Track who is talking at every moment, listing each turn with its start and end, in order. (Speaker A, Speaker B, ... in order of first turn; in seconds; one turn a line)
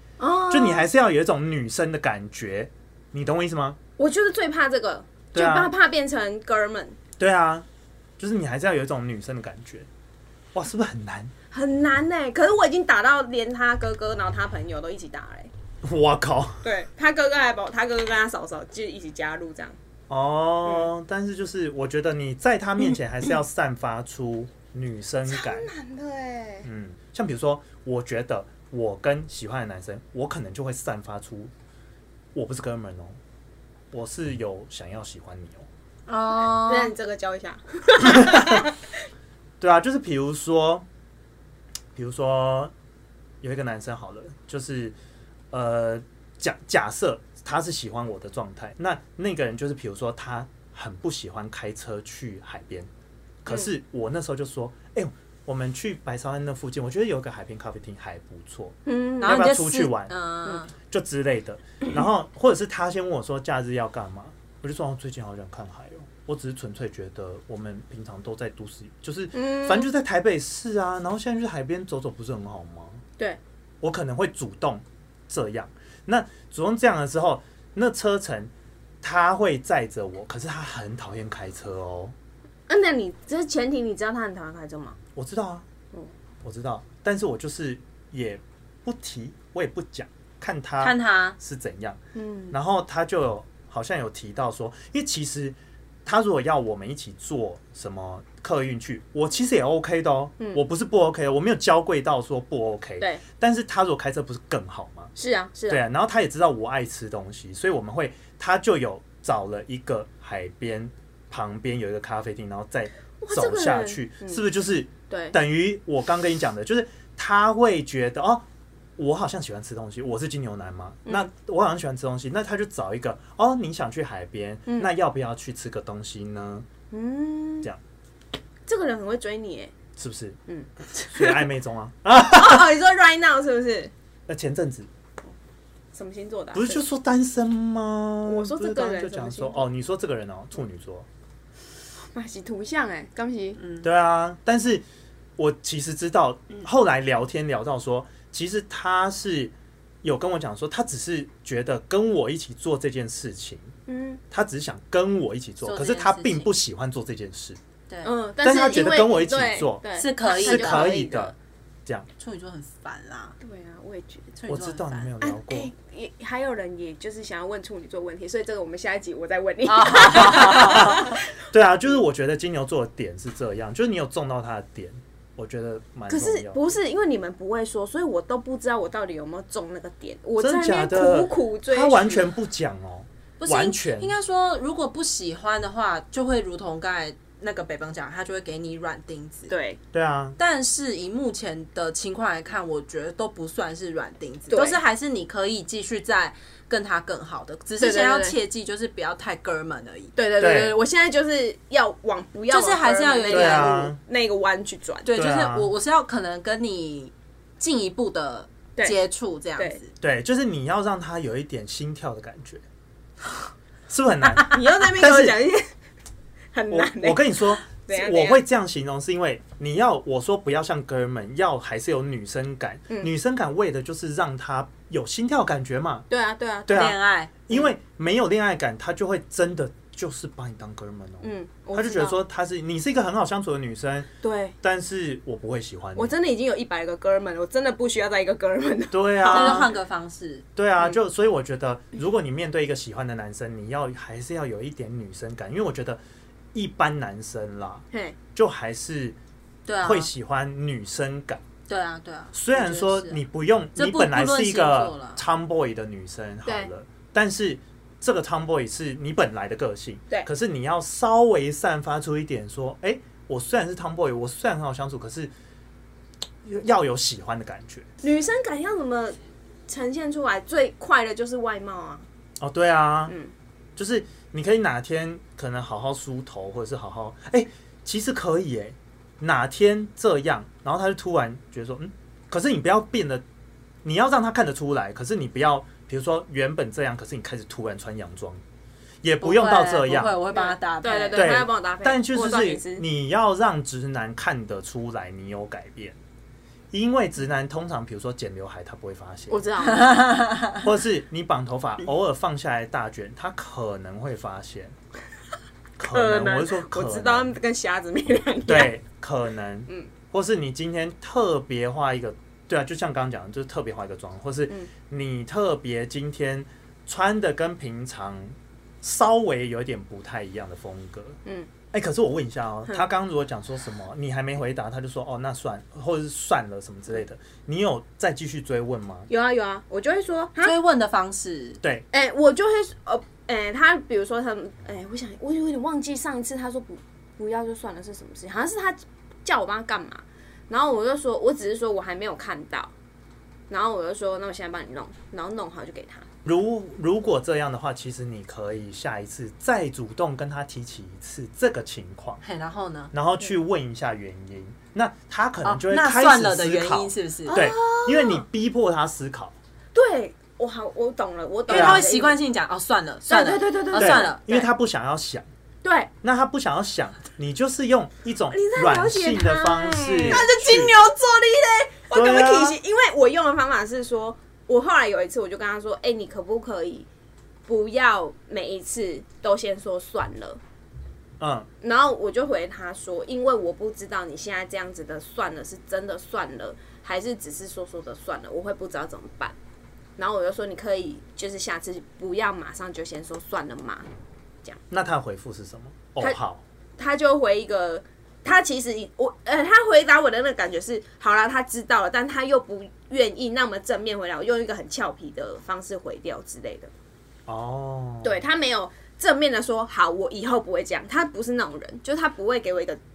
Speaker A: 0.2-0.9
Speaker B: 0.5-3.8
Speaker A: 4.0-7.0
Speaker B: 5.3-5.7
Speaker B: 7.2-7.7
Speaker B: 8.2-9.9
Speaker B: 10.5-11.3
Speaker A: 11.5-15.5
Speaker B: 15.8-16.6
Speaker A: 16.6-19.8
Speaker B: 20.1-25.7
Speaker A: 25.3-26.7
Speaker B: 26.6-31.5
Speaker B: 32.3-33.2
Speaker B: 33.9-35.7
Speaker C: 36.1-36.9
Speaker A: 36.6-38.8
Speaker B: 38.0-38.6
Speaker B: 39.6-40.9
Speaker B: 42.0-42.7
Speaker B: 43.4-45.0
Speaker B: 45.5-52.9
Speaker B: 53.4-60.1
Speaker A: 58.9-59.4
Speaker C: 59.2-60.7
Speaker B: 60.8-73.0
Speaker A: 69.3-69.9
Speaker B: 73.8-78.5
Speaker B: 79.0-82.1
Speaker A: 82.7-85.0
Speaker B: 85.1-85.7
Speaker B: 86.4-92.0
Speaker C: 90.8-91.4
Speaker A: 92.1-92.6
Speaker B: 92.5-105.1
Speaker A: 105.2-105.8
Speaker B: 105.7-118.5
Speaker A: 113.2-114.4
Speaker A: 115.1-115.4
Speaker B: 119.0-126.7
Speaker A: 126.9-127.7
Speaker A: 128.7-129.7
Speaker B: 130.0-130.4
Speaker A: 130.5-131.5
Speaker B: 131.1-132.8
Speaker A: 132.2-133.9
Speaker B: 134.3-134.9
Speaker A: 135.9-136.8
Speaker B: 136.5-141.1
Speaker A: 138.2-139.7
Speaker A: 142.1-143.6
Speaker C: 143.6-143.8
Speaker B: 143.8-144.8
Speaker B: 145.4-153.7
Speaker A: 153.9-154.2
Speaker B: 154.3-157.6
Speaker C: 155.6-156.5
Speaker C: 157.9-158.1
Speaker A: 158.0-161.3
Speaker B: 158.4-161.3
Speaker C: 160.0-161.0
Speaker C: 162.2-163.4
Speaker A: 163.4-164.4
Speaker C: 164.4-165.1
Speaker B: 164.5-165.7
Speaker A: 165.2-171.2
Speaker C: 169.7-171.2
Speaker B: 170.2-176.7
Speaker A: 176.1-182.3
Speaker B: 180.4-184.2
Speaker C: 183.4-189.5
Speaker A: 189.5-189.8
Speaker B: 189.9-190.4
Speaker C: 190.4-200.1
Speaker A: 194.5-194.8
Speaker A: 197.8-198.3
Speaker A: 200.2-205.1
Speaker B: 200.4-200.8
Speaker C: 202.5-203.8
Speaker B: 203.3-204.0
Speaker C: 205.0-209.9
Speaker B: 205.1-205.7
Speaker B: 210.0-212.6
Speaker B: 213.9-215.4
Speaker A: 214.5-215.7
Speaker A: 216.5-218.4
Speaker B: 216.7-226.1
Speaker A: 226.1-226.9
Speaker B: 226.7-234.1
Speaker C: 226.7-227.3
Speaker A: 227.5-227.7
Speaker A: 231.2-232.2
Speaker A: 234.2-234.6
Speaker B: 234.6-236.1
Speaker A: 236.0-239.7
Speaker B: 238.9-239.7
Speaker C: 239.2-240.4
Speaker B: 240.6-246.0
Speaker B: 246.5-249.2
Speaker C: 249.7-250.1
Speaker B: 249.8-251.4
Speaker C: 251.7-253.2
Speaker B: 252.3-265.3
Speaker C: 253.8-255.2
Speaker B: 266.4-267.9
Speaker A: 268.0-272.1
Speaker B: 272.4-273.1
Speaker B: 273.8-283.2
Speaker B: 283.8-288.4
Speaker B: 289.0-290.2
Speaker C: 289.2-291.3
Speaker A: 290.3-292.8
Speaker B: 291.1-296.0
Speaker B: 296.7-299.4
Speaker A: 299.3-300.2
Speaker C: 299.7-300.6
Speaker B: 300.6-304.8
Speaker B: 305.8-307.4
Speaker A: 305.9-308.8
Speaker B: 308.5-321.2
Speaker B: 321.7-329.1
Speaker A: 329.1-330.5
Speaker C: 330.4-331.6
Speaker B: 331.6-331.9
Speaker A: 331.9-342.7
Speaker A: 343.5-346.1
Speaker B: 346.2-352.2
Speaker C: 352.2-352.9
Speaker B: 352.9-359.4
Speaker C: 355.4-357.4
Speaker A: 357.3-358.2
Speaker A: 359.7-362.2
Speaker C: 361.5-364.5
Speaker B: 361.5-361.9
Speaker A: 363.1-364.2
Speaker B: 363.8-365.3
Speaker A: 365.6-365.9
Speaker B: 366.0-370.7
Speaker A: 368.3-376.9
Speaker C: 370.0-371.0
Speaker B: 371.9-372.6
Speaker A: 377.5-380.4
Speaker B: 381.2-381.5
Speaker A: 381.6-389.3
Speaker A: 390.0-393.9
Speaker B: 394.7-396.4
Speaker A: 396.8-406.7
Speaker B: 407.3-408.2
Speaker A: 408.0-412.8